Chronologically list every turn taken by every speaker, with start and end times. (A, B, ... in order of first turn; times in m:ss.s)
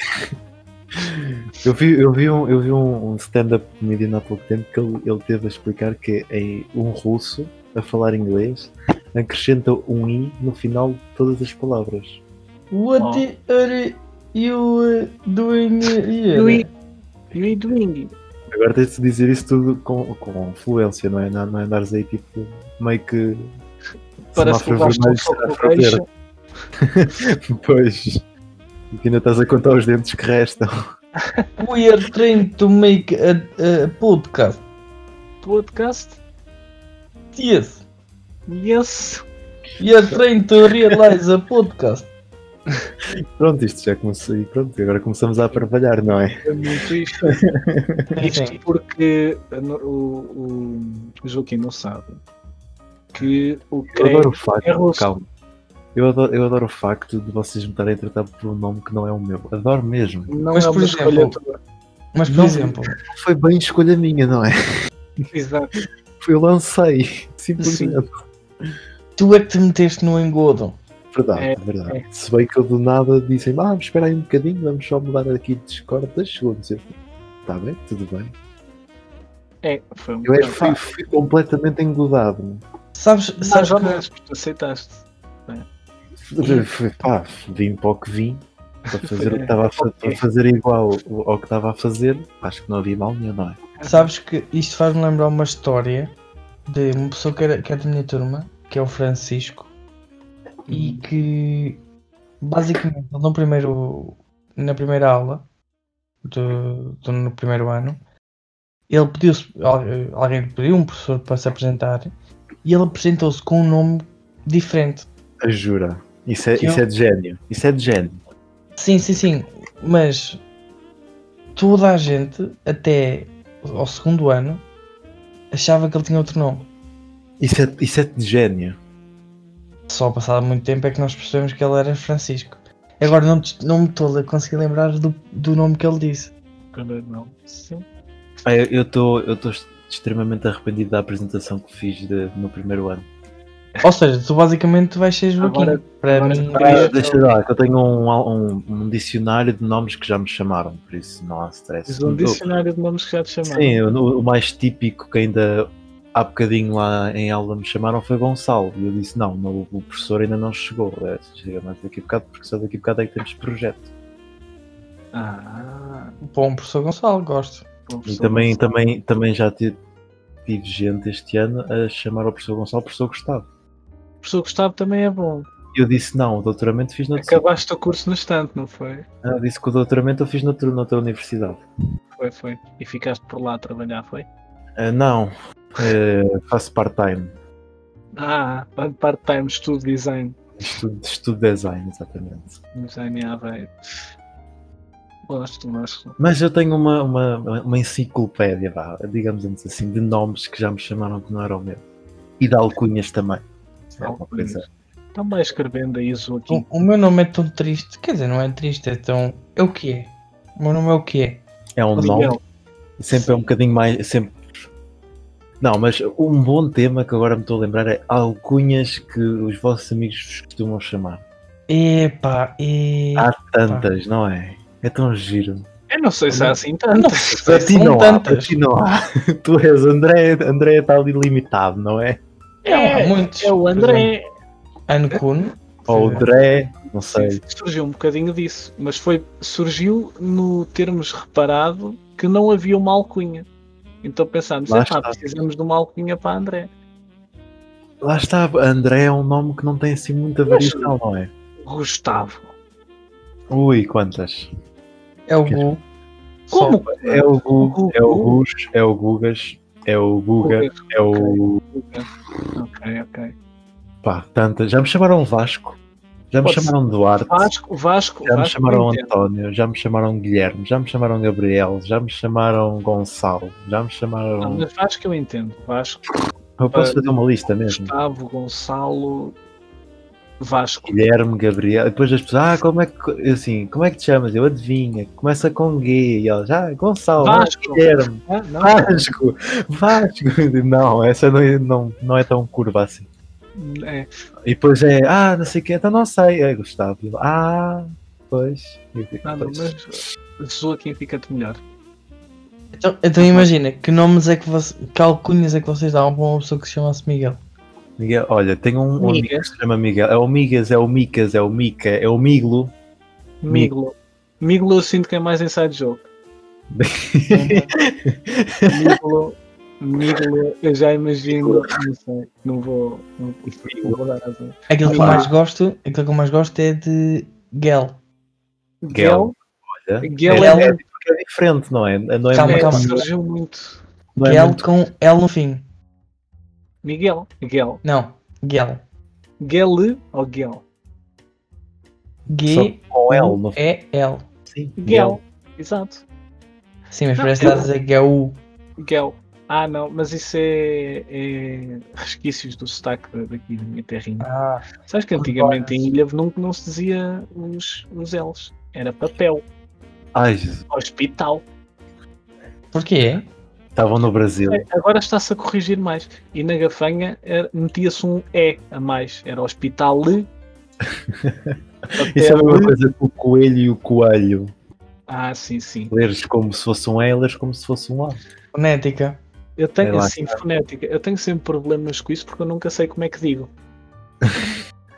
0:01.0-0:12.2 A
0:12.7-0:16.7 B
0:13.0-0:13.3 C
0:16.3-0:16.7 C
0:17.3-0:18.1 C
0:18.5-0:23.5 A
0:24.3-0:26.0 A
0:24.3-0:26.1 C
0:26.8-0:28.2 A
0:28.9-0:30.7 A
0:31.6-0:34.6 B
0:35.4-0:36.2 C
0:37.4-0:37.8 B
0:38.5-0:39.3 C
0:39.8-0:42.1 B
0:43.4-0:46.4 A
0:46.3-0:47.4 C
0:47.3-0:48.0 A
0:48.2-0:48.6 B
0:48.2-0:52.2 C
0:53.1-0:55.1 C
0:53.9-0:55.3 A
0:56.0-1:00.3 A
1:00.3-1:01.6 C
1:00.5-1:01.4 B
1:02.1-1:03.0 B
1:02.3-1:02.8 C
1:02.4-1:04.6 A
1:05.3-1:05.8 C
1:06.2-1:08.1 A
1:07.6-1:08.0 C
1:09.2-1:10.8 B
1:11.1-1:16.9 A
1:11.4-1:12.0 C
1:17.5-1:18.3 A
1:19.6-1:20.8 C
1:20.2-1:22.6 A
1:23.0-1:24.0 B
1:23.4-1:25.7 C
1:26.3-1:33.6 A
1:28.9-1:30.2 C
1:33.8-1:34.1 C
1:33.8-1:36.1 B
1:36.7-1:39.7 B
1:40.7-1:41.1 C
1:40.7-1:41.8 B
1:42.4-1:45.4 B
1:46.2-1:48.0 B
1:48.9-1:52.1 B
1:52.6-1:55.1 B
1:55.4-1:58.2 A
1:56.6-1:56.8 B
1:58.8-2:00.4 B
2:01.6-2:04.6 B
2:05.5-2:06.7 B
2:07.4-2:08.8 A
2:09.9-2:16.3 B
2:16.7-2:17.8 C
2:18.4-2:23.1 A
2:23.8-2:26.9 B
2:25.4-2:27.3 C
2:26.5-2:32.5 A
2:31.9-2:33.8 C
2:33.4-2:43.9 A
2:45.1-2:46.2 C
2:46.2-2:47.7 B
2:47.9-2:48.6 C
2:48.0-2:49.8 A
2:50.5-2:53.5 A
2:54.2-2:55.5 C
2:55.7-2:57.5 A
2:57.2-2:59.1 C
2:59.2-3:01.6 A
3:02.2-3:04.3 C
3:04.8-3:07.3 A
3:08.2-3:10.4 C
3:10.6-3:12.6 A
3:12.7-3:13.8 C
3:15.3-3:16.2 C
3:16.2-3:21.8 A
3:22.4-3:23.4 A
3:23.9-3:26.7 C
3:24.0-3:24.7 A
3:26.5-3:31.4 B
3:31.8-3:32.4 A
3:32.0-3:32.4 C
3:33.0-3:34.5 A
3:33.1-3:33.4 C
3:35.6-3:41.2 A
3:41.7-3:43.9 B
3:43.2-3:45.7 A
3:45.9-3:47.7 C
3:46.4-3:48.6 B
3:47.4-3:52.2 A
3:52.6-3:54.2 C
3:52.7-3:54.1 B
3:54.9-3:56.3 B
3:55.9-3:57.4 A
3:57.1-4:03.5 C
4:04.0-4:06.7 C
4:04.7-4:05.2 A
4:08.0-4:11.3 A
4:10.5-4:10.9 C
4:11.6-4:12.5 C
4:13.5-4:14.5 A
4:15.3-4:15.8 B
4:16.5-4:16.8 B
4:16.5-4:18.4 C
4:17.0-4:21.6 A
4:20.4-4:23.4 C
4:24.0-4:25.8 A
4:26.3-4:27.5 A
4:26.4-4:26.7 C
4:27.3-4:29.1 C
4:28.2-4:34.6 A
4:34.4-4:36.1 C
4:36.6-4:37.9 A
4:36.7-4:39.4 C
4:40.4-4:41.0 C
4:40.8-4:53.1 A
4:47.2-4:49.0 C
4:53.6-4:54.1 C
4:54.4-4:59.8 A
4:59.2-5:01.6 C
5:02.7-5:07.4 B
5:03.2-5:03.5 C
5:08.0-5:12.7 A
5:09.0-5:09.5 C
5:13.4-5:16.0 C
5:16.7-5:19.0 A
5:17.3-5:17.7 C
5:18.7-5:25.3 C
5:21.3-5:21.7 A
5:23.6-5:24.0 A
5:24.7-5:28.0 B
5:24.8-5:25.3 A
5:28.8-5:29.3 C
5:28.9-5:33.1 A
5:30.0-5:30.8 C
5:30.3-5:30.8 B
5:32.3-5:33.0 B
5:32.4-5:33.8 C
5:34.2-5:34.7 A
5:34.2-5:35.6 B
5:36.8-5:37.8 C
5:37.8-5:38.8 B
5:39.4-5:40.6 C
5:42.3-5:44.3 B
5:42.5-5:43.6 A
5:44.5-5:45.2 A
5:44.8-5:46.0 C
5:46.9-5:48.4 B
5:47.2-5:47.7 C
5:48.8-5:59.4 C
5:54.2-5:55.7 B
6:00.1-6:00.6 A
6:00.7-6:01.4 C
6:02.7-6:03.3 B
6:03.8-6:04.6 A
6:04.5-6:10.3 C
6:11.1-6:14.5 A
6:12.0-6:12.8 C
6:15.1-6:15.9 C
6:15.9-6:18.2 A
6:18.5-6:19.2 B
6:19.6-6:23.5 C
6:19.8-6:20.4 A
6:24.2-6:24.5 A